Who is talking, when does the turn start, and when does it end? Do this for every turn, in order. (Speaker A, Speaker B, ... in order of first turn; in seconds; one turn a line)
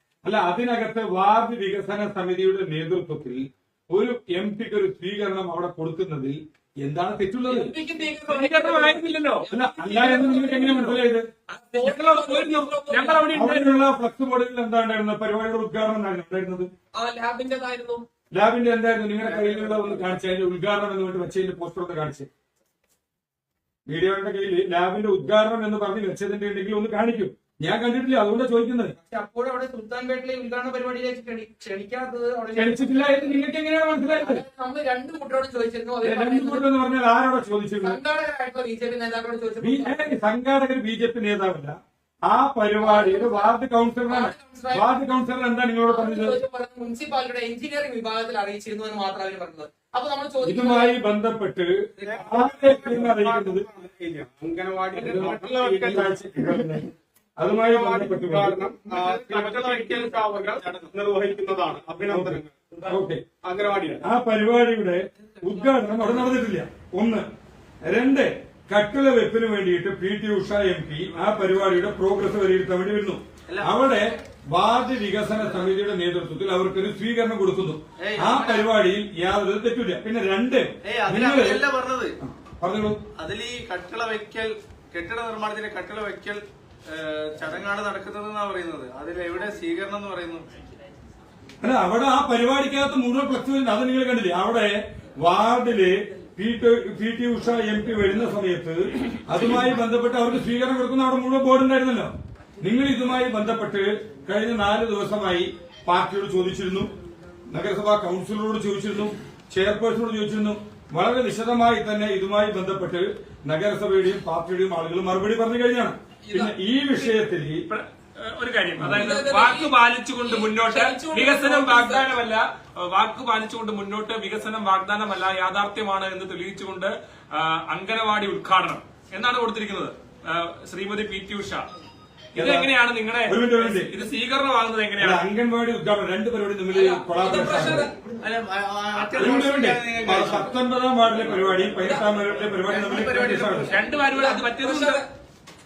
Speaker A: 0.2-7.7
Speaker B: 7.5-11.0
Speaker C: 8.3-9.5
Speaker A: 9.5-11.3
Speaker B: 11.5-13.3
Speaker C: 11.7-13.8
Speaker A: 13.3-16.7
Speaker B: 17.0-18.1
Speaker A: 18.3-22.3
Speaker A: 23.9-29.0
Speaker D: 29.0-33.4
Speaker A: 32.5-34.4
Speaker D: 34.2-36.7
Speaker A: 36.0-38.0
Speaker D: 37.8-40.1
Speaker A: 39.6-46.4
Speaker D: 42.8-44.9
Speaker D: 45.9-51.0
Speaker A: 50.4-53.7
Speaker E: 52.0-56.7
Speaker A: 54.9-58.6
Speaker E: 57.5-62.9
Speaker F: 58.9-60.9
Speaker A: 62.1-63.2
Speaker E: 63.4-64.0
Speaker A: 64.0-67.3
Speaker A: 67.9-81.7
Speaker F: 73.5-73.7
Speaker F: 78.0-78.7
Speaker F: 80.8-82.2
Speaker A: 82.2-83.0
Speaker F: 83.2-90.6
Speaker A: 91.6-106.9
Speaker A: 107.5-117.7
Speaker B: 116.2-116.5
Speaker C: 117.7-131.7
Speaker A: 118.8-119.1
Speaker B: 118.9-122.1
Speaker A: 132.3-132.7
Speaker C: 132.3-135.2
Speaker A: 133.2-133.9
Speaker A: 135.0-137.9
Speaker B: 136.7-137.9
Speaker F: 138.1-140.6
Speaker C: 139.0-139.2
Speaker A: 139.2-143.7
Speaker F: 141.1-141.8
Speaker B: 141.8-142.1
Speaker F: 142.6-143.7
Speaker C: 143.7-145.0
Speaker B: 143.7-145.1